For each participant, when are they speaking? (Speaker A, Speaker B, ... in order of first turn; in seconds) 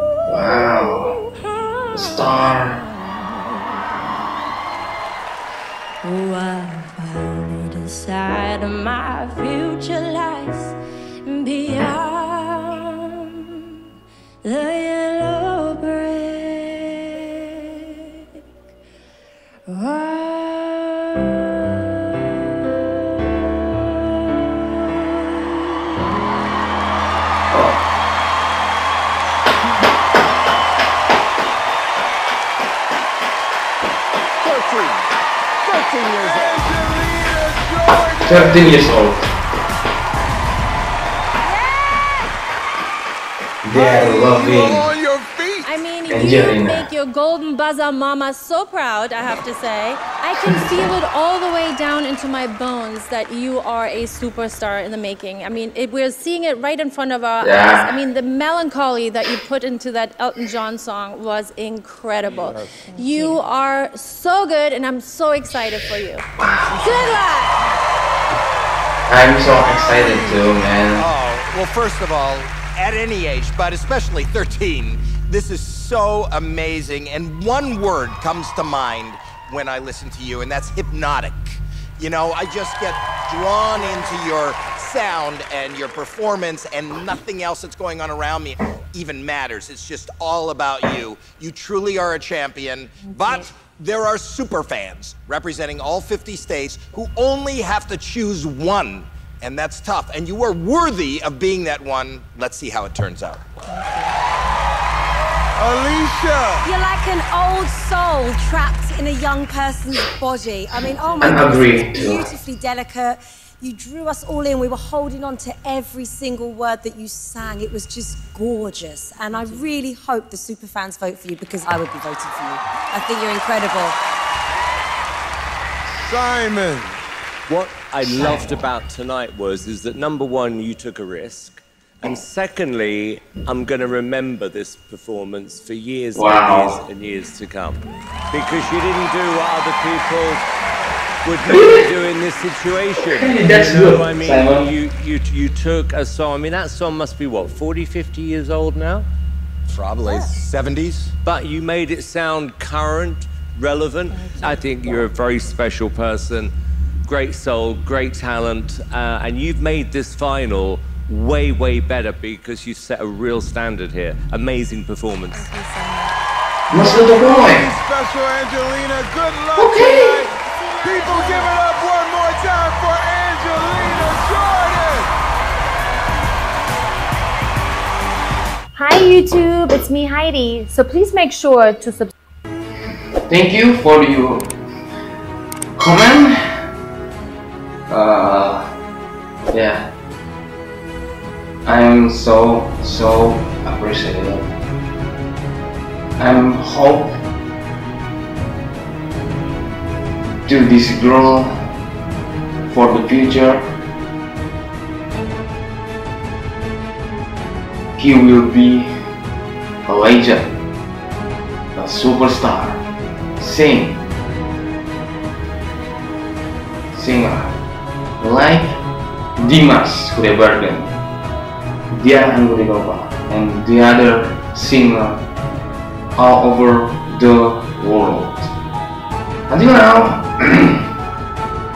Speaker A: 0.3-1.2, 1.9-2.8, 27.5-27.8, 38.3-39.3, 43.6-44.9, 46.1-46.9, 57.4-58.0, 66.4-67.0, 69.1-71.1, 111.2-112.3, 128.0-128.5, 136.2-136.8, 141.5-141.9, 143.0-144.7, 166.7-167.7, 169.6-170.3, 183.3-184.5, 185.8-186.3, 187.9-188.7, 189.5-189.9, 191.7-194.5, 196.2-197.2, 200.5-201.7, 202.7-203.6, 208.0-208.9, 209.9-210.6, 211.8-212.8, 213.4-214.0, 216.9-217.6, 218.2-218.8, 219.4-221.0, 221.9-225.2, 226.2-228.5, 229.5-230.8
Speaker B: 0.6-4.3, 6.0-13.8, 14.4-18.2, 19.7-26.2, 63.0-63.4, 66.8-67.5
Speaker C: 34.4-35.1, 35.6-38.9, 43.7-45.8, 62.3-62.8, 69.7-70.4, 105.5-106.7, 126.0-127.0, 166.8-175.1
Speaker D: 45.6-66.2, 170.7-171.5
Speaker E: 70.9-103.4, 149.7-151.1
Speaker F: 106.6-124.0, 150.1-150.3
Speaker G: 127.5-140.5, 141.2-149.1, 151.2-156.5, 157.1-165.5
Speaker H: 178.8-182.1